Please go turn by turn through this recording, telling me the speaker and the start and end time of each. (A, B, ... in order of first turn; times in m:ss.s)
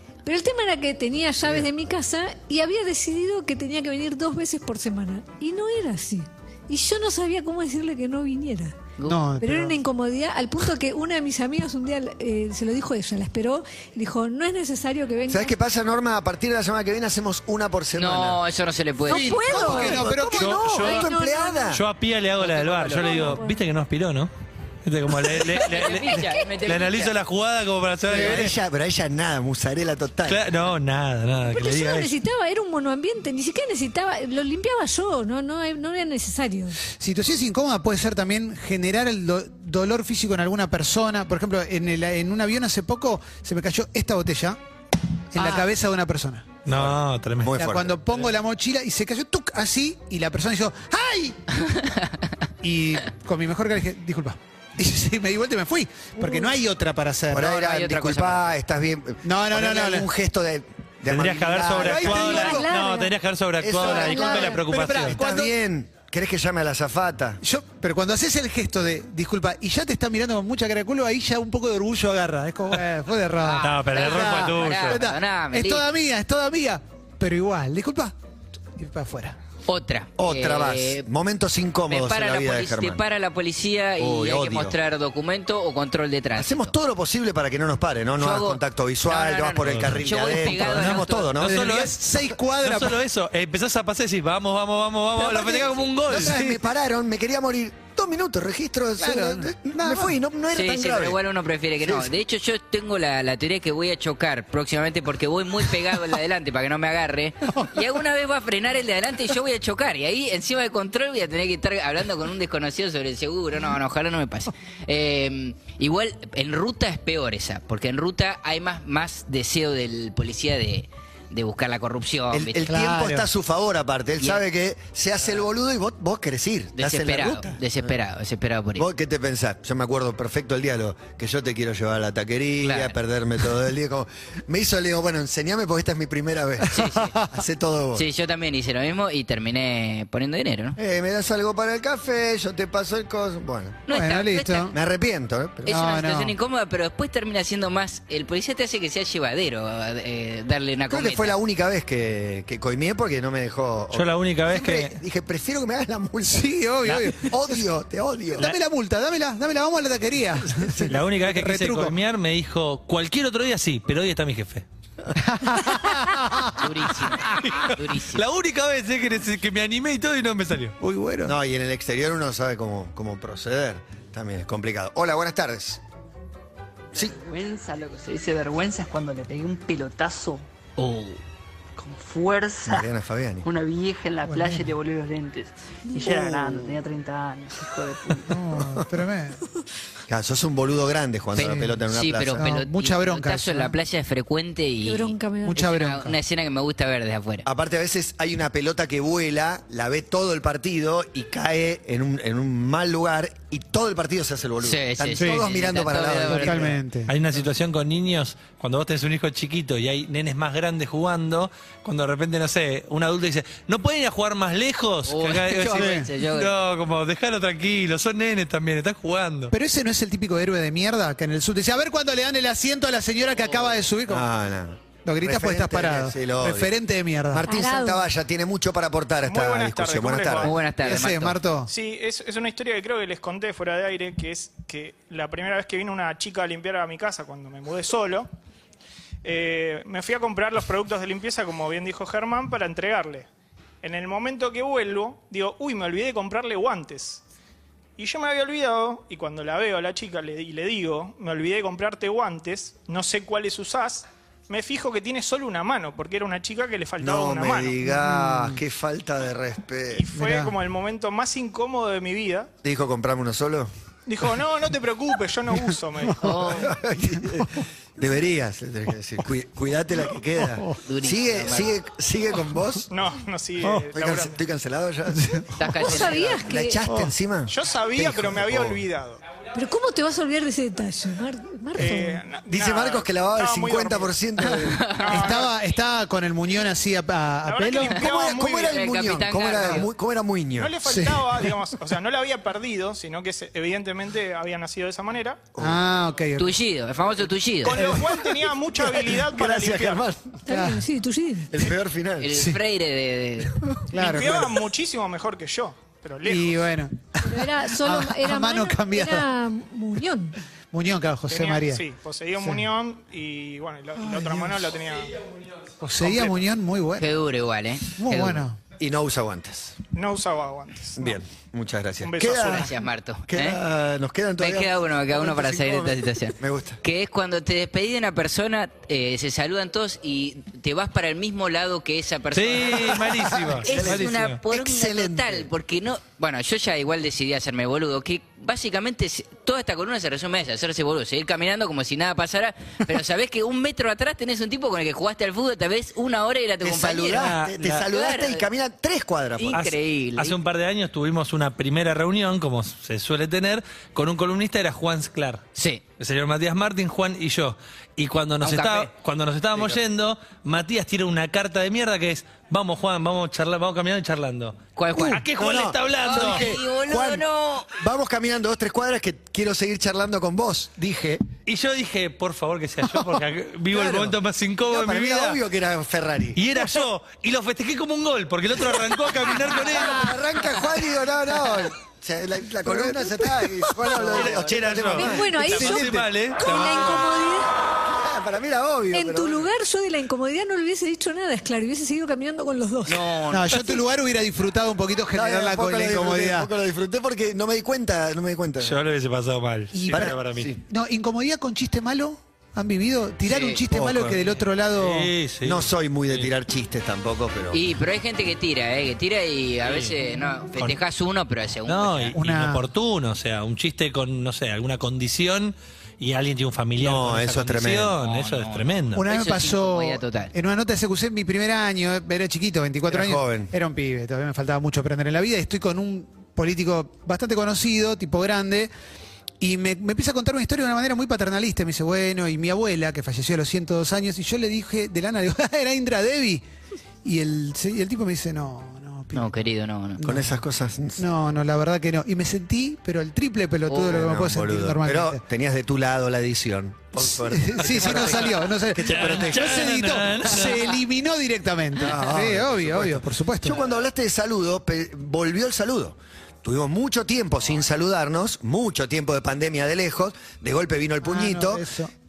0:00.2-0:08.8 A
0:09.0-0:09.8 B
0:09.4-0:15.5 A
0:15.3-0:18.4 C
0:18.0-0:19.4 D
0:19.0-0:21.8 A
0:19.1-0:20.9 B
0:19.3-0:21.8 C
0:20.4-0:21.1 E
0:21.7-0:24.3 E
0:22.4-0:23.3 D
0:22.8-0:23.6 A
0:24.8-0:28.5 E
0:25.4-0:27.1 D
0:25.7-0:26.7 A
0:28.0-0:30.5 C
0:30.2-0:32.1 E
0:31.4-0:36.8 A
0:36.8-0:44.6 B
0:45.3-0:46.5 B
0:45.4-0:45.6 D
0:46.6-0:47.6 E
0:46.7-0:48.1 C
0:47.6-0:51.4 B
0:51.7-0:52.1 D
0:52.6-0:57.5 B
0:57.3-1:02.6 C
0:57.4-0:58.4 D
0:59.2-1:00.1 B
1:01.1-1:05.2 E
1:01.8-1:02.7 B
1:02.1-1:03.1 A
1:03.6-1:07.4 C
1:03.8-1:05.5 B
1:03.8-1:04.6 A
1:07.4-1:18.1 B
1:13.4-1:15.8 D
1:13.6-1:15.0 E
1:18.8-1:19.4 B
1:19.7-1:21.1 D
1:20.2-1:23.0 C
1:21.9-1:26.7 D
1:24.0-1:24.8 C
1:26.4-1:31.6 C
1:28.2-1:31.3 D
1:29.6-1:30.0 E
1:30.7-1:32.0 E
1:31.4-1:33.0 B
1:32.6-1:36.6 E
1:35.2-1:41.2 C
1:36.1-1:36.4 B
1:39.0-1:40.2 B
1:40.5-2:02.7 D
1:41.8-1:42.1 C
2:02.3-2:07.9 C
2:02.6-2:03.3 B
2:06.8-2:08.9 D
2:08.7-2:18.0 C
2:12.6-2:12.9 D
2:16.7-2:17.1 D
2:16.8-2:17.3 B
2:17.9-2:20.8 D
2:20.8-2:23.8 C
2:23.9-2:24.8 D
2:23.9-2:24.7 B
2:24.7-2:25.9 C
2:25.6-2:31.4 D
2:25.7-2:26.3 B
2:30.9-2:38.5 C
2:33.9-2:35.0 E
2:36.2-2:37.6 B
2:38.4-2:41.9 B
2:40.5-2:41.0 C
2:40.9-2:44.6 E
2:45.2-2:46.7 B
2:46.6-2:48.2 D
2:47.4-2:50.8 E
2:50.8-2:51.3 B
2:51.2-2:55.8 C
2:56.9-3:01.2 F
3:01.8-3:02.9 F
3:02.6-3:03.5 C
3:03.4-3:08.4 F
3:04.2-3:04.7 B
3:06.0-3:06.7 C
3:08.3-3:09.4 B
3:08.5-3:08.8 C
3:10.1-3:12.5 C
3:11.3-3:17.4 D
3:11.4-3:11.8 B
3:12.4-3:13.7 B
3:14.8-3:15.6 A
3:15.4-3:16.2 B
3:17.4-3:26.8 C
3:24.6-3:26.7 D
3:25.2-3:25.4 B
3:26.3-3:27.1 B
3:27.1-3:39.5 E
3:35.0-3:36.5 D
3:35.7-3:36.1 B
3:39.5-3:44.3 B
3:44.1-3:46.7 C
3:45.0-3:47.5 B
3:47.3-3:50.5 C
3:47.5-3:48.0 A
3:49.2-3:50.6 G
3:50.4-3:51.4 D
3:50.8-3:51.7 B
3:51.7-3:58.3 G
3:59.2-4:03.3 G
4:03.8-4:07.2 G
4:08.0-4:17.8 G
4:17.0-4:20.1 C
4:17.8-4:18.6 B
4:19.9-4:22.5 G
4:20.1-4:20.5 B
4:22.6-4:23.7 C
4:24.0-4:26.7 G
4:26.2-4:26.7 D
4:26.5-4:32.9 C
4:30.8-4:31.7 D
4:32.9-4:34.4 G
4:33.6-4:38.8 C
4:35.1-4:35.5 B
4:35.6-4:36.4 D
4:35.8-4:36.8 A
4:36.9-4:37.1 B
4:37.5-4:39.2 G
4:39.5-4:42.2 A
4:41.8-4:44.2 G
4:42.5-4:44.9 C
4:44.8-4:45.1 D
4:44.9-4:45.6 G
4:45.1-4:48.1 B
4:47.4-4:48.8 G
4:47.8-4:50.8 C
4:48.6-4:49.9 D
4:50.6-4:55.5 G
4:50.8-4:51.5 B
4:55.5-4:55.8 C
4:55.6-4:56.6 B
4:56.4-4:57.8 D
4:57.6-5:00.0 G
4:57.7-4:58.2 B
4:58.8-5:00.4 C
5:00.4-5:01.6 A
5:00.5-5:00.8 B
5:01.5-5:02.5 C
5:02.2-5:03.5 D
5:02.3-5:02.6 B
5:03.9-5:04.6 B
5:03.9-5:06.7 G
5:06.2-5:09.2 B
5:07.2-5:10.4 A
5:10.7-5:11.8 B
5:11.3-5:15.2 G
5:12.4-5:12.6 B
5:14.0-5:14.6 B
5:15.8-5:17.1 B
5:16.0-5:16.4 G
5:17.0-5:18.4 D
5:18.0-5:18.6 B
5:18.8-5:19.8 C
5:19.9-5:21.2 G
5:21.0-5:22.7 C
5:22.0-5:22.7 G
5:22.4-5:23.6 D
5:23.3-5:26.8 C
5:24.4-5:48.4 D
5:32.3-5:34.4 E
5:32.9-5:35.5 C
5:46.6-5:49.6 C
5:47.1-5:47.8 E
5:49.4-5:50.4 D
5:49.5-5:55.4 E
5:55.6-5:55.8 D
5:56.0-6:06.5 E
5:58.4-5:58.9 D
6:04.8-6:05.2 D
6:04.9-6:05.2 B
6:05.3-6:11.2 C
6:06.0-6:07.7 D
6:11.4-6:15.4 E
6:13.7-6:16.5 C
6:16.4-6:20.2 E
6:19.2-6:25.8 C
6:23.9-6:27.1 E
6:24.2-6:24.5 D
6:24.9-6:27.6 A
6:25.5-6:26.0 B
6:27.8-6:29.5 C
6:28.9-6:33.1 A
6:32.8-6:33.7 D
6:33.3-6:36.5 B
6:35.1-6:38.8 C
6:38.6-6:40.5 E
6:39.7-6:40.1 B
6:39.9-6:40.6 C
6:40.7-6:45.1 B
6:43.3-6:43.6 D
6:43.7-6:46.3 E
6:45.4-6:47.6 C
6:47.5-6:52.2 D
6:49.6-6:49.9 E
6:51.6-6:59.0 E
6:52.1-6:52.6 B
6:56.8-6:58.0 C
6:58.0-7:00.3 D
6:58.9-7:08.7 B
7:02.9-7:03.5 C
7:09.4-7:16.4 B
7:17.0-7:19.3 B
7:19.1-7:20.0 D
7:20.0-7:20.4 B
7:20.0-7:21.1 C
7:21.0-7:25.2 B
7:23.7-7:30.0 C
7:27.0-7:33.6 B
7:28.8-7:30.8 E
7:31.8-7:41.7 C
7:41.0-7:41.9 B